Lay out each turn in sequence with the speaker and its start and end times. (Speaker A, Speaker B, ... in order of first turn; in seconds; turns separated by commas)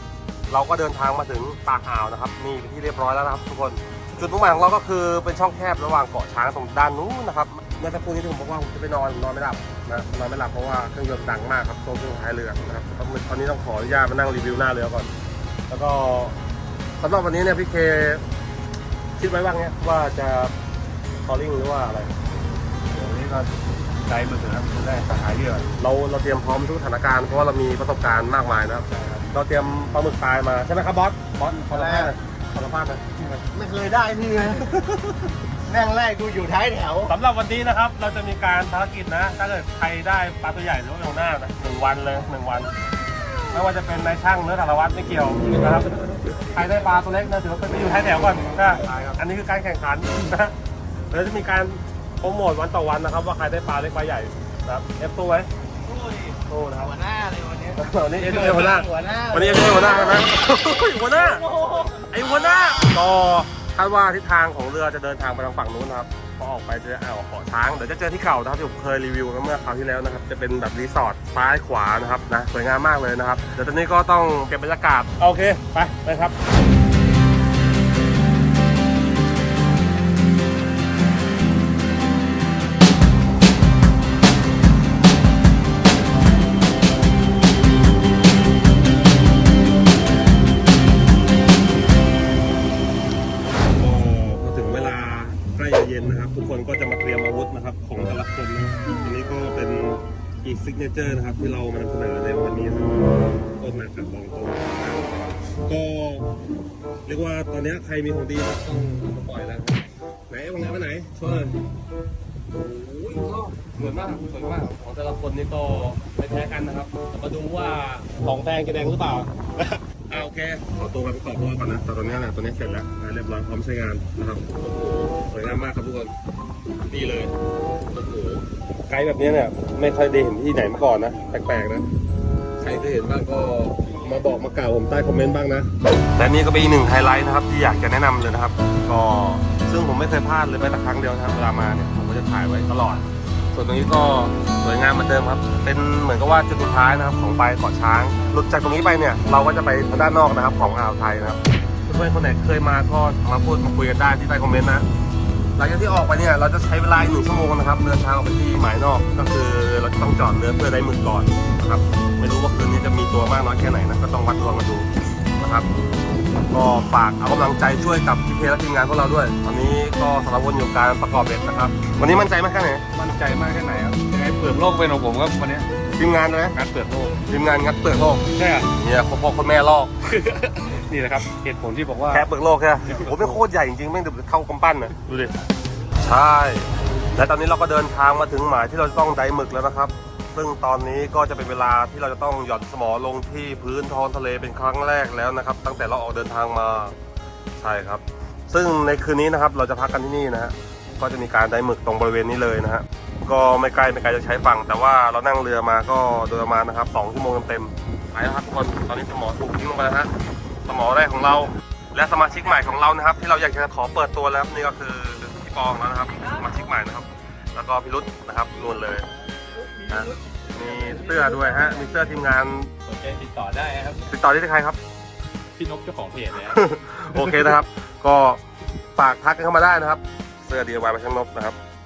Speaker A: 0.5-15.1, Speaker A: 15.7-16.4, Speaker A: 17.0-18.2, Speaker A: 19.2-20.5, Speaker A: 21.2-22.1, Speaker B: 22.9-25.7, Speaker A: 25.8-33.2, Speaker B: 28.9-29.2, Speaker C: 31.7-32.1, Speaker C: 33.4-34.9, Speaker C: 35.7-37.1, Speaker A: 37.1-42.7, Speaker A: 43.5-50.5, Speaker A: 51.1-55.5, Speaker C: 55.9-60.3, Speaker A: 56.5-56.9, Speaker A: 57.8-61.4, Speaker C: 61.4-62.2, Speaker A: 62.1-76.3, Speaker A: 93.5-103.0, Speaker A: 103.6-106.3, Speaker A: 107.0-111.6, Speaker A: 112.5-126.1, Speaker A: 126.9-127.3, Speaker A: 127.9-131.8, Speaker A: 132.6-154.8, Speaker A: 155.6-165.7, Speaker A: 166.5-172.8, Speaker B: 172.9-175.7, Speaker A: 176.0-176.6, Speaker B: 176.5-177.2, Speaker A: 177.3-179.9, Speaker B: 178.3-178.7, Speaker B: 180.1-182.3, Speaker A: 182.1-185.4, Speaker B: 182.8-183.4, Speaker A: 186.0-196.9, Speaker A: 197.6-210.1, Speaker A: 210.7-219.1, Speaker A: 219.9-222.7, Speaker B: 220.6-221.3, Speaker B: 222.8-224.1, Speaker A: 224.1-224.8, Speaker B: 225.5-227.5, Speaker A: 226.5-228.4, Speaker A: 228.9-231.6